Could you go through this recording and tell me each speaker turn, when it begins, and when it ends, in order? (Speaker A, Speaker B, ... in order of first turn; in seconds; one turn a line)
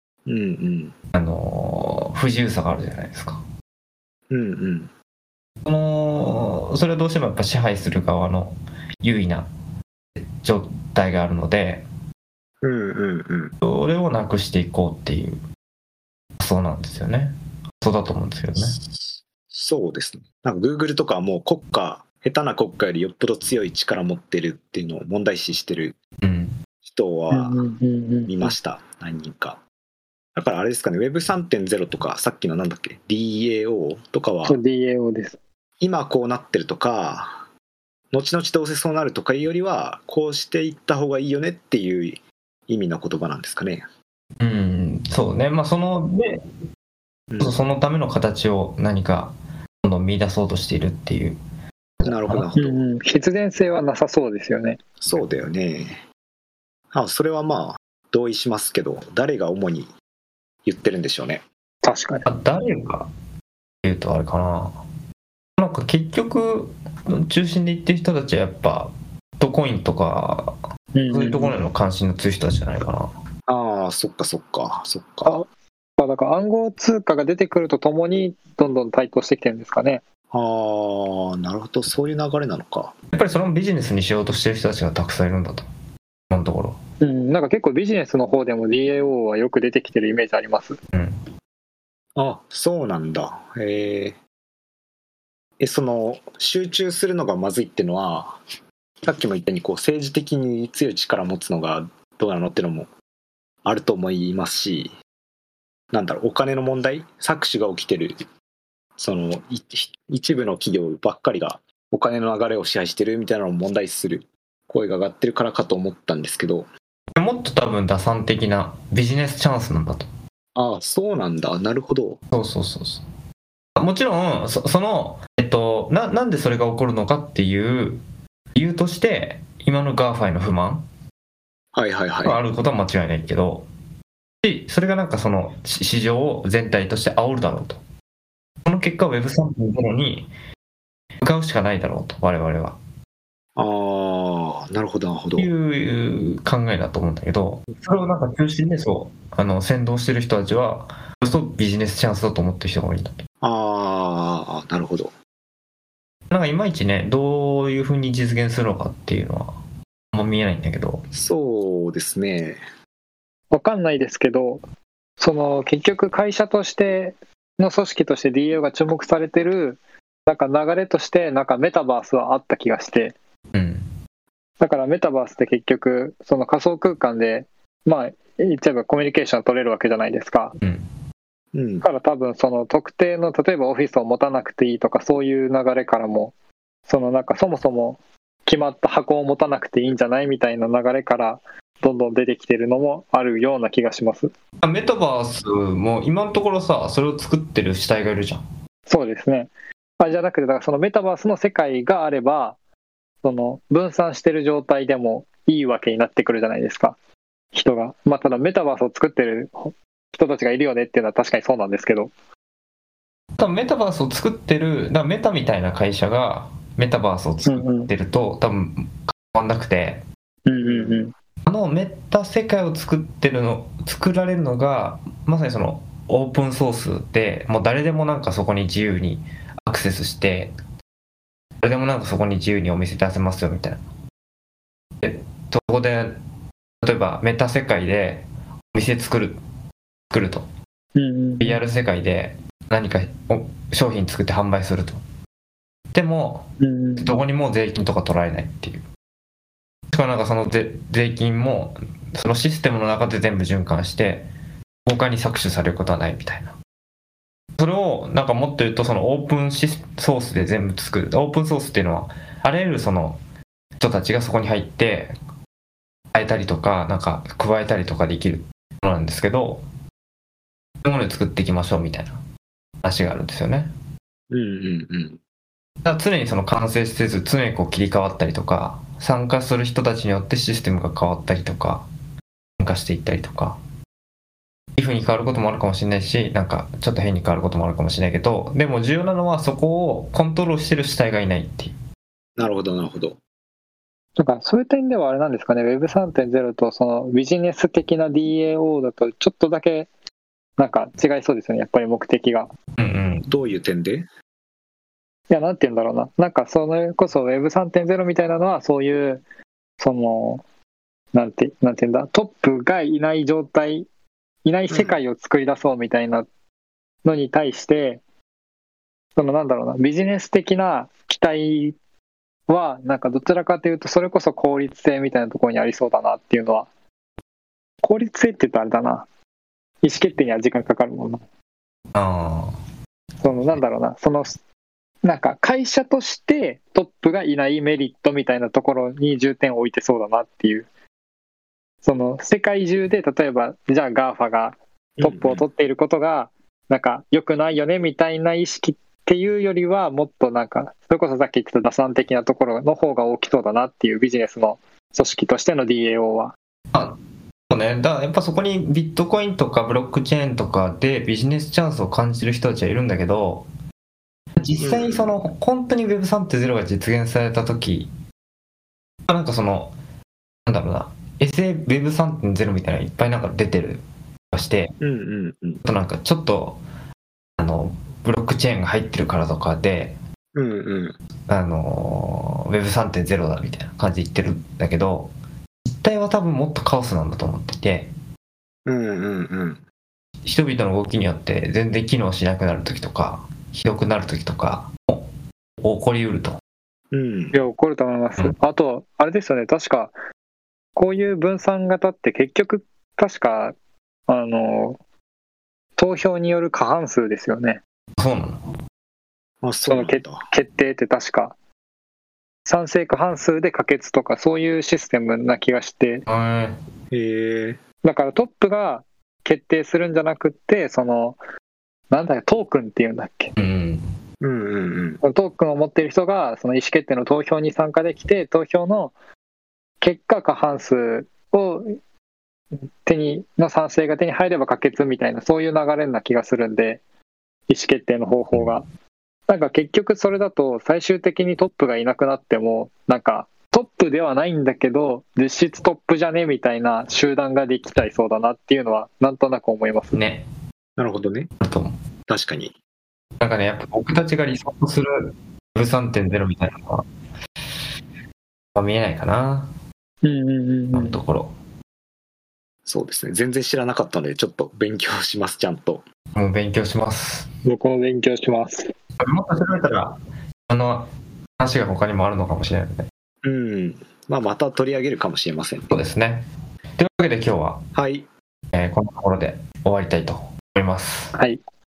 Speaker A: 0.2-0.9
Speaker B: 1.1-3.4
Speaker A: 4.3-4.9
Speaker B: 5.6-9.5
Speaker B: 10.2-11.8
Speaker A: 12.6-13.5
Speaker B: 13.6-15.4
Speaker B: 16.4-18.8
Speaker A: 18.6-26.0
Speaker B: 26.2-26.5
Speaker A: 26.8-27.6
Speaker C: 27.3-28.5
Speaker A: 28.3-29.6
Speaker A: 30.4-34.6
Speaker C: 34.4-35.4
Speaker A: 35.8-37.5
Speaker A: 38.1-43.8
Speaker B: 44.4-46.4
Speaker A: 47.3-47.5
Speaker B: 47.4-51.4
Speaker B: 52.0-52.5
Speaker A: 52.0-52.8
Speaker C: 52.5-54.8
Speaker A: 55.0-56.0
Speaker A: 56.9-59.9
Speaker A: 60.6-61.4
Speaker C: 61.8-62.2
Speaker B: 62.2-63.1
Speaker B: 63.8-64.7
Speaker B: 65.6-70.5
Speaker C: 70.9-71.6
Speaker B: 71.1-73.1
Speaker A: 73.5-75.4
Speaker C: 76.0-80.0
Speaker A: 80.3-82.9
Speaker B: 83.1-85.7
Speaker B: 86.3-86.8
Speaker C: 87.0-90.8
Speaker B: 90.9-91.2
Speaker A: 92.2-94.2
Speaker A: 95.6-98.4
Speaker A: 99.0-102.9
Speaker A: 103.6-104.9
Speaker A: 105.9-108.2
Speaker A: 109.0-116.7
Speaker B: 117.1-120.1
Speaker A: 120.5-122.2
Speaker B: 122.3-123.0
Speaker B: 123.8-128.0
Speaker B: 128.5-130.8
Speaker A: 131.7-132.4
Speaker B: 132.2-133.7
Speaker B: 134.4-137.8
Speaker B: 138.6-140.3
Speaker B: 141.2-142.8
Speaker A: 143.6-145.5
Speaker B: 145.4-153.2
Speaker A: 153.4-155.1
Speaker B: 156.3-159.5
Speaker B: 160.1-161.0
Speaker A: 161.1-162.6
Speaker C: 163.5-164.6
Speaker C: 165.2-173.2
Speaker B: 173.5-173.8
Speaker C: 174.6-180.5
Speaker A: 181.5-181.9
Speaker C: 181.8-186.3
Speaker C: 186.9-194.3
Speaker B: 194.6-198.4
Speaker C: 198.9-202.6
Speaker C: 203.2-207.0
Speaker C: 207.5-212.1
Speaker B: 213.4-220.0
Speaker C: 217.4-217.9
Speaker C: 220.4-221.1
Speaker A: 220.6-221.1
Speaker B: 221.4-230.5
Speaker B: 231.6-233.8
Speaker B: 235.0-236.2
Speaker B: 236.8-239.4
Speaker B: 240.1-240.5
Speaker C: 240.9-241.6
Speaker B: 241.4-245.0
Speaker B: 245.9-246.5
Speaker C: 246.6-247.1
Speaker B: 247.0-248.8
Speaker B: 249.9-254.3
Speaker B: 254.8-256.5
Speaker B: 257.6-263.2
Speaker B: 263.8-265.1
Speaker B: 266.1-269.6
Speaker B: 270.8-272.2
Speaker B: 272.8-273.7
Speaker A: 274.3-275.2
Speaker B: 275.8-281.9
Speaker B: 282.6-283.6
Speaker B: 284.8-291.8
Speaker A: 292.4-293.2
Speaker C: 294.2-299.9
Speaker C: 300.6-302.5
Speaker B: 302.8-303.3
Speaker A: 303.3-304.1
Speaker C: 305.3-309.2
Speaker C: 309.8-310.4
Speaker C: 311.1-313.9
Speaker C: 314.4-316.3
Speaker A: 314.7-315.0
Speaker C: 317.0-318.0
Speaker C: 319.2-321.8
Speaker C: 322.5-326.7
Speaker C: 327.8-329.1
Speaker C: 329.8-331.2
Speaker B: 331.9-332.5
Speaker C: 333.2-334.4
Speaker C: 335.0-340.6
Speaker C: 341.8-356.3
Speaker A: 345.0-345.5
Speaker B: 356.7-357.0
Speaker B: 357.5-363.5
Speaker B: 364.4-367.9
Speaker A: 364.6-365.1
Speaker B: 369.1-369.8
Speaker B: 370.4-374.7
Speaker A: 374.8-375.6
Speaker B: 375.6-376.6
Speaker B: 377.4-380.0
Speaker A: 380.3-380.9
Speaker B: 381.3-385.1
Speaker B: 385.6-387.9
Speaker A: 388.6-389.6
Speaker B: 390.2-395.1
Speaker B: 395.6-396.4
Speaker A: 396.9-397.4
Speaker C: 397.3-399.9
Speaker C: 400.8-403.5
Speaker C: 404.1-404.8
Speaker C: 405.8-407.6
Speaker B: 408.0-408.4
Speaker A: 409.4-410.2
Speaker C: 409.7-411.3
Speaker C: 412.5-416.0
Speaker B: 416.1-416.6
Speaker A: 416.9-417.6
Speaker C: 417.8-421.2
Speaker C: 421.9-423.3
Speaker B: 423.4-423.8
Speaker A: 424.2-425.0
Speaker C: 425.0-428.9
Speaker C: 429.8-431.7
Speaker C: 432.8-436.8
Speaker C: 437.5-438.6
Speaker C: 439.3-450.0
Speaker B: 449.9-450.3
Speaker A: 450.8-451.3
Speaker B: 451.4-451.8
Speaker A: 452.1-452.5
Speaker B: 453.2-456.9
Speaker B: 458.5-459.5
Speaker C: 460.0-461.0
Speaker B: 460.7-461.3
Speaker A: 462.6-465.8
Speaker B: 466.1-467.3
Speaker C: 467.4-468.7
Speaker B: 469.0-469.9
Speaker B: 470.5-470.9
Speaker B: 471.4-472.9
Speaker A: 473.2-475.7
Speaker B: 475.7-476.2
Speaker B: 476.8-477.6
Speaker A: 477.7-478.1
Speaker B: 478.5-481.1